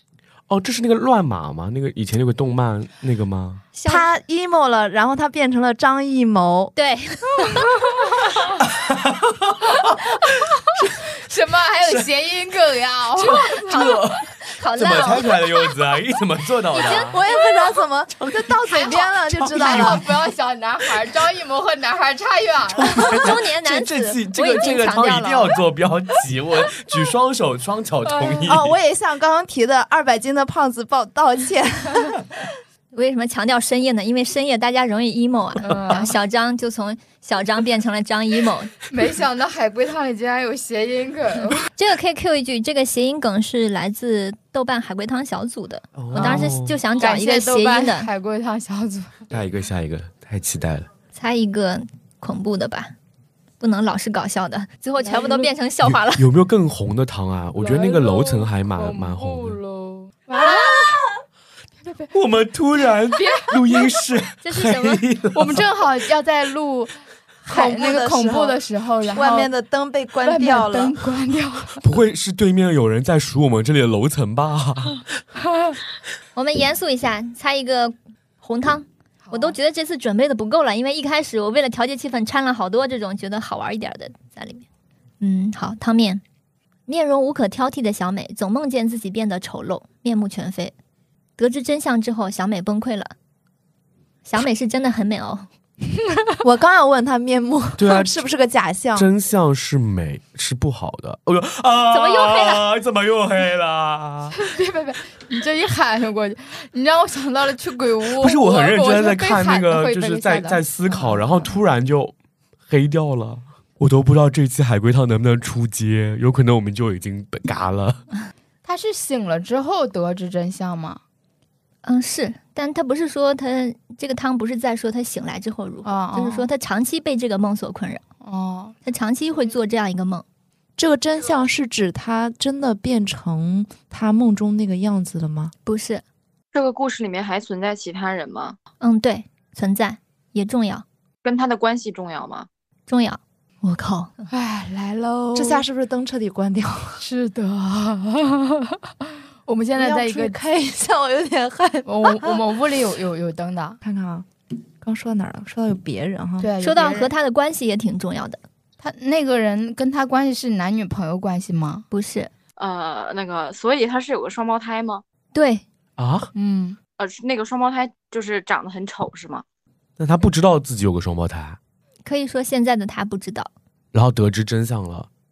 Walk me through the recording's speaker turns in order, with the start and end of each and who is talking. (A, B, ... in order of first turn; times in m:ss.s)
0:00.5-0:03.6 A
0:03.7-0:04.0 B
0:03.8-0:06.7 C
0:06.8-0:07.7 B
0:07.6-0:08.3 D
0:08.6-0:11.0 A
0:11.0-0:13.9 D
0:11.8-0:12.1 A
0:13.2-0:17.2 A
0:13.5-0:15.3 B
0:16.7-0:17.1 B
0:16.9-0:20.0 C
0:18.2-0:20.0 A
0:19.5-0:23.3 D
0:22.8-0:28.7 A
0:23.1-0:25.5 B
0:28.1-0:28.5 D
0:28.4-0:32.5 C
0:32.9-0:38.7 B
0:35.6-0:36.2 D
0:38.9-0:41.7 D
0:41.8-0:48.1 B
0:45.9-0:46.8 A
0:46.1-0:49.3 D
0:49.3-0:50.9 A
0:51.1-0:52.9 B
0:53.6-0:56.2 B
0:55.0-0:55.5 D
0:55.9-0:59.6 A
0:57.6-1:01.0 D
1:01.8-1:02.1 D
1:02.1-1:05.7 A
1:03.1-1:03.9 D
1:04.4-1:05.0 B
1:05.3-1:09.5 D
1:07.5-1:11.0 C
1:10.2-1:11.8 D
1:11.8-1:15.0 A
1:16.3-1:24.6 B
1:19.2-1:19.6 D
1:25.2-1:26.2 B
1:26.9-1:30.7 B
1:31.4-1:33.1 B
1:34.2-1:35.5 B
1:36.4-1:39.1 C
1:37.8-1:38.1 A
1:39.0-1:44.4 A
1:41.9-1:42.6 B
1:44.3-1:51.5 D
1:48.1-1:52.1 A
1:52.7-1:58.0 A
1:58.6-2:01.0 D
2:01.8-2:08.0 B
2:05.8-2:06.5 D
2:08.2-2:08.7 D
2:08.8-2:10.2 B
2:10.8-2:15.5 C
2:15.6-2:16.0 B
2:16.5-2:18.6 E
2:18.8-2:20.8 B
2:21.2-2:22.5 E
2:22.9-2:24.1 B
2:24.3-2:25.6 D
2:25.3-2:27.0 C
2:27.0-2:30.4 D
2:29.7-2:32.4 C
2:31.8-2:33.8 D
2:33.8-2:34.3 C
2:34.8-2:36.5 C
2:36.4-2:37.1 D
2:36.6-2:38.4 B
2:38.8-2:41.8 D
2:41.9-2:42.3 B
2:42.6-2:45.0 E
2:45.3-2:45.6 B
2:46.0-2:46.3 A
2:46.3-2:46.8 D
2:47.0-2:49.4 E
2:50.0-2:51.6 A
2:52.0-2:53.5 B
2:53.9-2:55.1 A